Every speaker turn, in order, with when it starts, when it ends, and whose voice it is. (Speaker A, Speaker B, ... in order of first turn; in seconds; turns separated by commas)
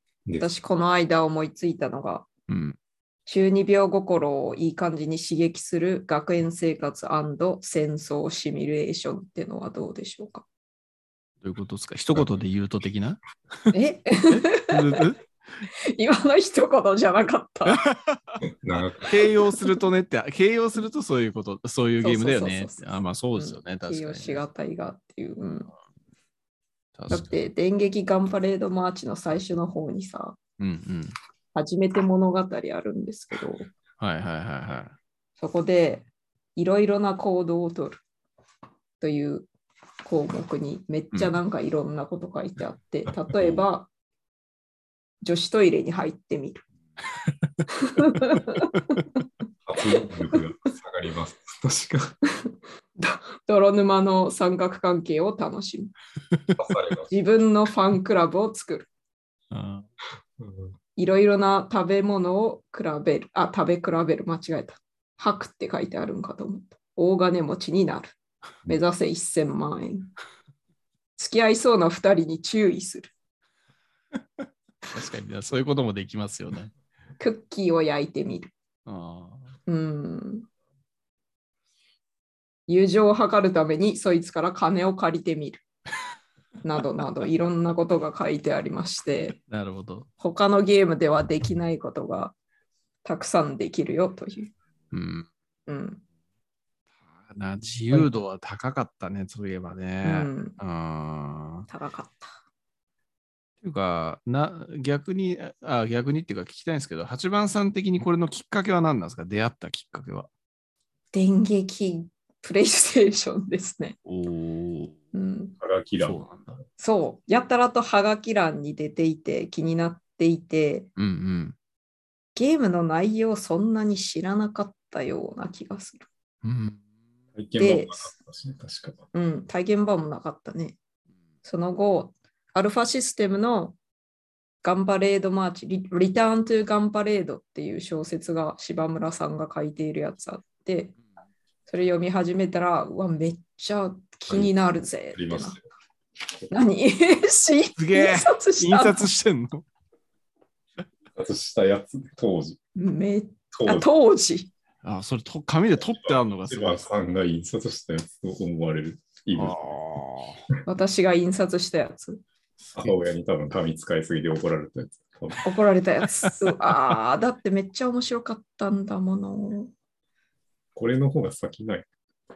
Speaker A: 0.4-2.3, Speaker B: 2.5-2.8, Speaker A: 3.3-10.4, Speaker B: 11.4-13.2, Speaker A: 13.7-15.0, Speaker B: 14.3-15.2, Speaker A: 15.9-17.8, Speaker B: 17.7-18.4, Speaker C: 18.5-19.2, Speaker B: 19.1-24.4, Speaker A: 19.5-19.8, Speaker A: 22.0-22.9, Speaker A: 23.4-25.7, Speaker B: 26.9-27.4, Speaker A: 27.1-30.4, Speaker B: 30.6-31.2, Speaker A: 31.5-33.7, Speaker B: 34.0-34.9, Speaker A: 35.4-38.0, Speaker A: 39.0-39.5, Speaker A: 40.0-43.9, Speaker C: 43.3-43.6, Speaker A: 45.2-46.6, Speaker B: 47.2-49.0, Speaker A: 47.8-48.7, Speaker C: 49.6-52.2, Speaker A: 52.4-55.9, Speaker B: 56.3-56.6, Speaker C: 56.6-57.1, Speaker A: 57.1-58.9, Speaker B: 59.5-59.9, Speaker C: 60.4-60.8, Speaker A: 61.0-68.1, Speaker A: 68.7-70.1, Speaker A: 71.2-73.1, Speaker B: 74.9-76.7, Speaker A: 77.2-78.5, Speaker B: 78.8-79.5, Speaker A: 79.7-80.5, Speaker A: 82.7-85.6, Speaker A: 86.6-89.4, Speaker B: 89.5-90.1, Speaker A: 90.2-92.3, Speaker A: 93.0-94.5, Speaker B: 94.9-95.3, Speaker A: 95.7-96.0, Speaker B: 97.3-101.7, Speaker A: 100.0-100.6, Speaker A: 101.7-102.3, Speaker B: 103.6-110.3, Speaker A: 111.1-114.0, Speaker B: 114.0-114.9, Speaker A: 115.1-115.6, Speaker C: 115.6-116.2, Speaker B: 116.0-116.6, Speaker A: 116.8-120.9, Speaker B: 121.0-121.6, Speaker A: 122.3-126.1, Speaker B: 126.4-126.8, Speaker C: 127.3-129.0, Speaker A: 127.6-128.1, Speaker A: 129.1-130.8, Speaker A: 131.4-133.8, Speaker A: 134.6-140.9, Speaker A: 141.7-145.6, Speaker C: 144.3-144.6, Speaker C: 145.1-145.6, Speaker A: 146.5-149.1, Speaker B: 147.8-149.6, Speaker C: 151.1-152.6, Speaker A: 152.8-154.5, Speaker C: 153.5-153.9, Speaker B: 154.8-156.8, Speaker C: 155.9-159.6, Speaker B: 159.3-160.4, Speaker A: 160.7-162.2, Speaker B: 162.6-163.0, Speaker C: 162.8-165.4, Speaker A: 165.4-169.7, Speaker C: 170.8-171.9